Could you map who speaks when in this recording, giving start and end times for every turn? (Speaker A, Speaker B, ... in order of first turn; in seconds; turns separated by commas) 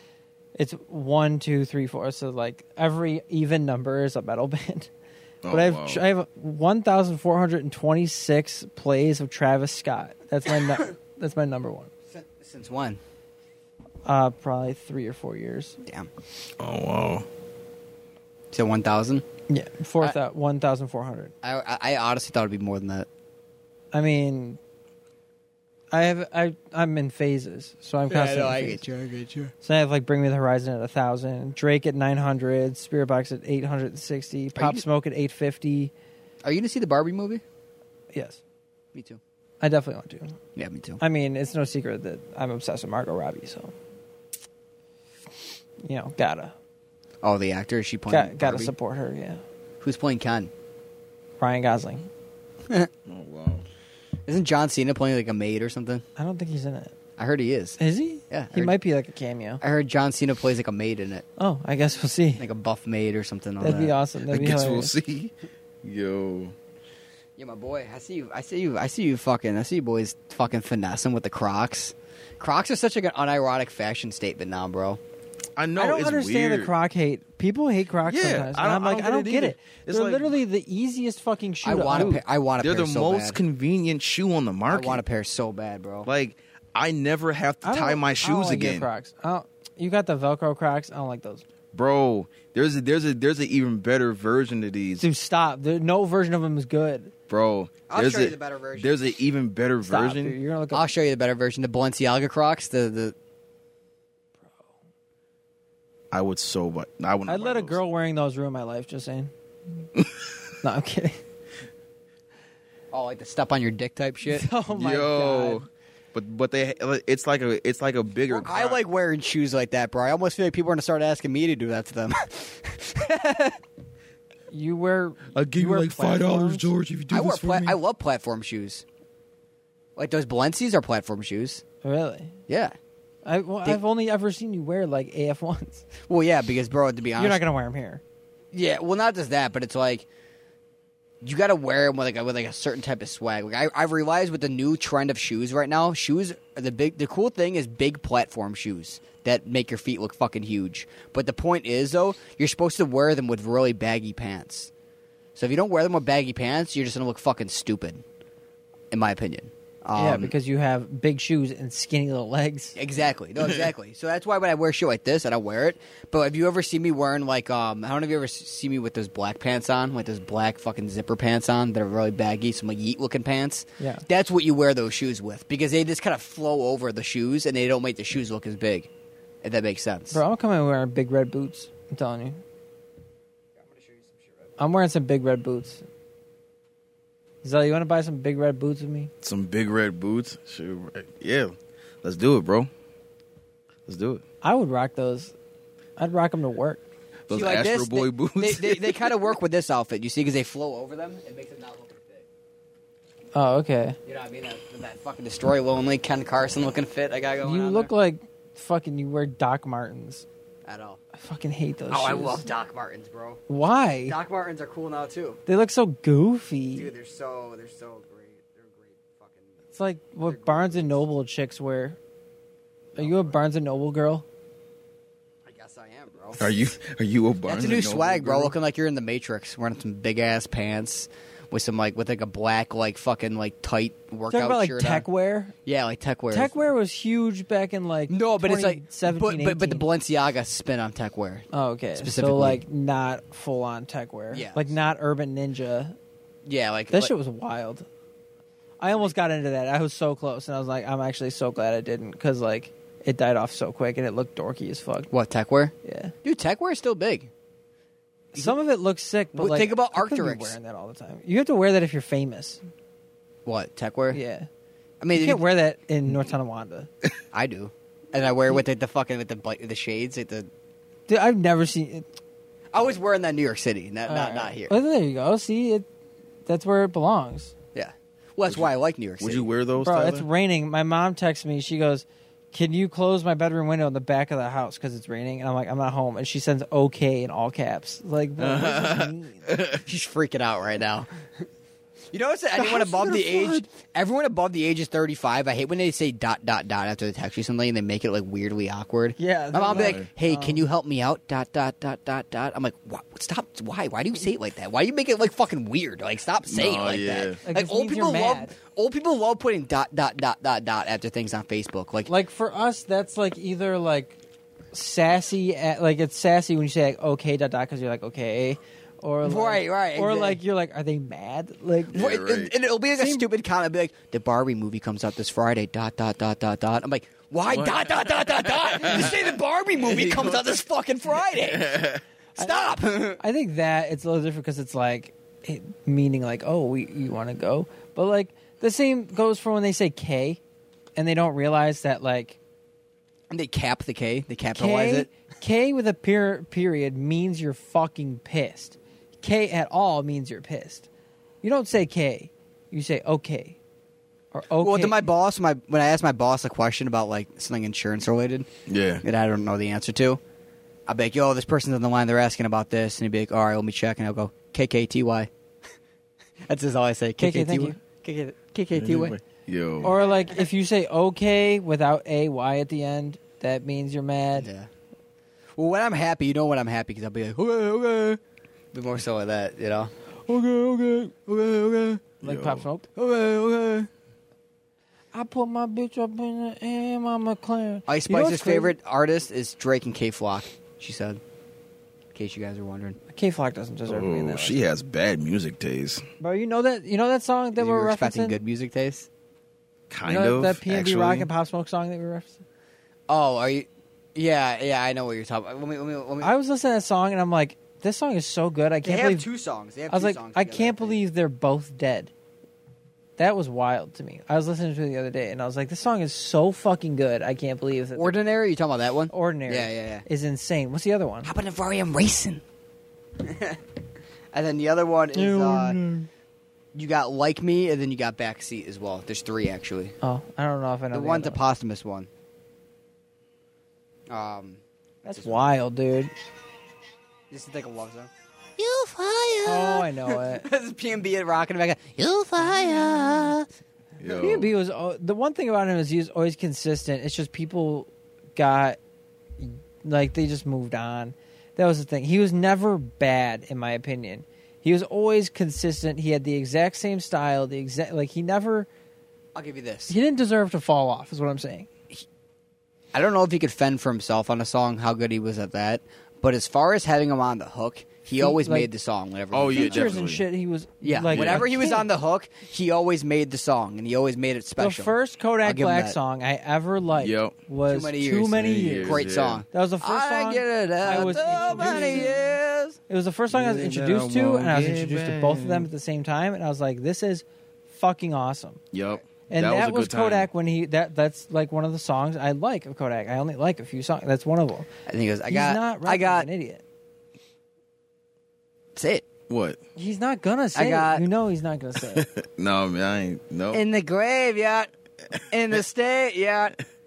Speaker A: 0.6-4.9, Speaker B: 5.4-6.0, Speaker A: 5.5-11.9, Speaker C: 12.1-13.0, Speaker A: 14.0-15.8, Speaker B: 16.6-17.3, Speaker C: 18.5-19.2, Speaker A: 19.5-21.3, Speaker C: 21.4-23.1, Speaker A: 23.9-24.6, Speaker A: 25.9-28.8, Speaker C: 28.1-29.5, Speaker A: 29.6-35.9, Speaker C: 34.5-34.8, Speaker C: 36.4-37.4, Speaker A: 38.1-38.4, Speaker C: 38.9-39.2, Speaker A: 39.6-40.4, Speaker C: 40.5-41.0, Speaker A: 41.0-43.7, Speaker A: 45.8-46.5, Speaker C: 47.2-48.7, Speaker A: 48.1-49.4, Speaker C: 49.8-50.5, Speaker A: 51.4-52.1, Speaker B: 53.0-53.6, Speaker C: 54.3-56.0, Speaker A: 56.2-56.9, Speaker C: 57.2-57.8, Speaker A: 57.8-59.6, Speaker C: 58.3-58.7, Speaker C: 59.6-61.2, Speaker A: 61.4-62.4, Speaker C: 62.4-63.9, Speaker A: 63.6-64.9, Speaker B: 64.3-66.5, Speaker C: 67.4-75.0, Speaker B: 75.6-76.7, Speaker A: 75.8-82.2, Speaker B: 78.0-80.3, Speaker C: 81.6-83.4, Speaker B: 81.9-85.0, Speaker C: 84.7-86.1, Speaker B: 86.0-88.9, Speaker A: 87.6-91.4, Speaker B: 91.7-95.0, Speaker A: 95.0-97.1, Speaker B: 97.3-100.4, Speaker C: 97.9-99.0, Speaker A: 99.8-100.8, Speaker C: 100.7-103.1, Speaker B: 106.1-107.8, Speaker A: 107.3-109.3, Speaker A: 110.6-111.2, Speaker C: 112.9-114.5, Speaker A: 114.3-115.7, Speaker B: 114.7-118.8, Speaker C: 118.3-123.6, Speaker A: 124.5-126.7, Speaker B: 125.3-127.8, Speaker C: 127.1-128.8, Speaker C: 129.9-131.6, Speaker A: 131.8-132.3, Speaker C: 132.5-132.7, Speaker A: 133.2-135.8, Speaker C: 136.1-137.4, Speaker A: 137.2-138.0, Speaker C: 138.5-140.1, Speaker C: 141.2-154.7, Speaker C: 155.3-158.0, Speaker C: 158.9-160.3, Speaker A: 159.9-162.8, Speaker C: 162.8-178.9, Speaker A: 173.8-174.0, Speaker C: 179.4-180.2, Speaker A: 180.1-182.4, Speaker C: 183.6-184.3, Speaker A: 184.6-185.8, Speaker A: 187.4-189.1, Speaker B: 189.2-192.7, Speaker B: 193.9-194.2, Speaker A: 194.4-195.3, Speaker A: 196.0-196.8, Speaker B: 197.3-199.2, Speaker C: 197.3-202.2, Speaker A: 203.3-204.0, Speaker C: 204.1-207.9, Speaker A: 207.4-210.2, Speaker C: 210.6-211.0, Speaker A: 211.2-212.5, Speaker C: 211.9-213.4, Speaker A: 213.5-214.2, Speaker C: 214.1-215.4, Speaker A: 215.5-216.9, Speaker C: 216.8-219.6, Speaker A: 219.7-222.0, Speaker C: 220.2-221.0, Speaker C: 222.9-223.4, Speaker A: 222.9-224.2, Speaker C: 225.4-226.4, Speaker B: 226.3-228.5, Speaker C: 227.4-235.0, Speaker A: 234.3-235.5, Speaker C: 235.7-236.6, Speaker A: 236.3-239.9, Speaker C: 238.1-242.6, Speaker A: 241.5-246.0, Speaker C: 244.3-244.7, Speaker C: 246.4-247.1, Speaker A: 246.9-247.8, Speaker A: 248.8-255.1, Speaker C: 255.1-257.3, Speaker A: 255.8-256.1, Speaker A: 258.3-262.6, Speaker C: 259.3-260.6, Speaker C: 263.4-264.2, Speaker A: 264.1-264.5, Speaker C: 265.0-265.4, Speaker A: 265.1-266.9, Speaker C: 267.3-270.5, Speaker A: 271.1-272.1, Speaker C: 272.7-274.7, Speaker A: 274.1-275.9, Speaker A: 276.5-277.5, Speaker C: 277.7-279.5, Speaker B: 279.2-280.3, Speaker A: 279.8-289.4, Speaker B: 288.4-289.8, Speaker C: 289.8-291.1, Speaker C: 292.1-312.1, Speaker A: 292.6-293.6, Speaker A: 299.2-300.6, Speaker B: 299.7-300.1, Speaker B: 306.5-307.4, Speaker A: 307.4-308.5, Speaker A: 312.1-314.1, Speaker A: 314.7-321.9, Speaker C: 319.2-320.4, Speaker B: 321.9-322.5, Speaker C: 321.9-331.7, Speaker A: 322.9-323.2, Speaker B: 327.5-330.6, Speaker B: 331.2-332.0, Speaker C: 332.4-333.2, Speaker A: 333.2-340.4, Speaker A: 340.9-342.4, Speaker C: 343.3-345.1, Speaker A: 344.5-350.9, Speaker A: 351.4-353.6, Speaker A: 354.3-355.0, Speaker C: 354.6-358.5, Speaker B: 358.7-359.0, Speaker C: 359.0-360.2, Speaker C: 360.9-365.3, Speaker C: 366.5-369.2, Speaker A: 367.2-367.8, Speaker B: 368.8-369.9, Speaker A: 369.8-374.5, Speaker C: 374.4-374.7, Speaker C: 375.6-378.2, Speaker C: 378.7-382.0, Speaker A: 382.2-382.9, Speaker B: 382.2-382.7, Speaker C: 382.9-383.9, Speaker A: 385.1-388.7, Speaker C: 387.9-391.2, Speaker C: 392.1-393.0, Speaker A: 393.1-394.6, Speaker B: 393.9-396.0, Speaker A: 396.2-398.4, Speaker C: 397.6-399.1, Speaker B: 399.9-401.3, Speaker A: 400.0-402.4, Speaker C: 403.1-406.3, Speaker A: 406.2-409.3, Speaker C: 408.8-411.0, Speaker A: 409.9-412.1, Speaker A: 413.2-418.2, Speaker C: 418.0-420.0, Speaker A: 419.1-421.3, Speaker C: 421.2-422.4, Speaker C: 423.2-423.6, Speaker C: 424.3-425.8, Speaker A: 425.1-426.1, Speaker C: 426.7-429.9, Speaker A: 430.0-431.4, Speaker C: 430.9-432.1, Speaker C: 434.1-434.6, Speaker A: 435.0-436.1, Speaker C: 435.1-435.4, Speaker C: 437.3-443.5, Speaker A: 439.4-440.4, Speaker A: 442.4-443.1, Speaker B: 444.0-444.5, Speaker A: 444.2-448.8, Speaker A: 449.4-458.7, Speaker C: 459.3-459.9, Speaker A: 459.9-461.7, Speaker C: 462.9-470.0, Speaker A: 468.2-468.7, Speaker B: 469.3-470.2, Speaker A: 469.5-471.9, Speaker C: 470.8-476.0, Speaker B: 471.1-471.5, Speaker A: 474.6-482.1, Speaker B: 476.9-477.4, Speaker C: 477.7-482.8, Speaker B: 478.4-479.4, Speaker B: 481.4-482.1, Speaker A: 482.9-488.6, Speaker B: 483.3-485.7, Speaker B: 488.7-490.3, Speaker A: 489.3-494.7, Speaker C: 494.9-496.3, Speaker A: 495.3-496.6, Speaker C: 498.8-499.0, Speaker B: 499.3-499.6, Speaker A: 499.8-502.1, Speaker C: 500.5-501.0, Speaker B: 501.9-503.6, Speaker C: 503.5-504.7, Speaker C: 505.3-506.6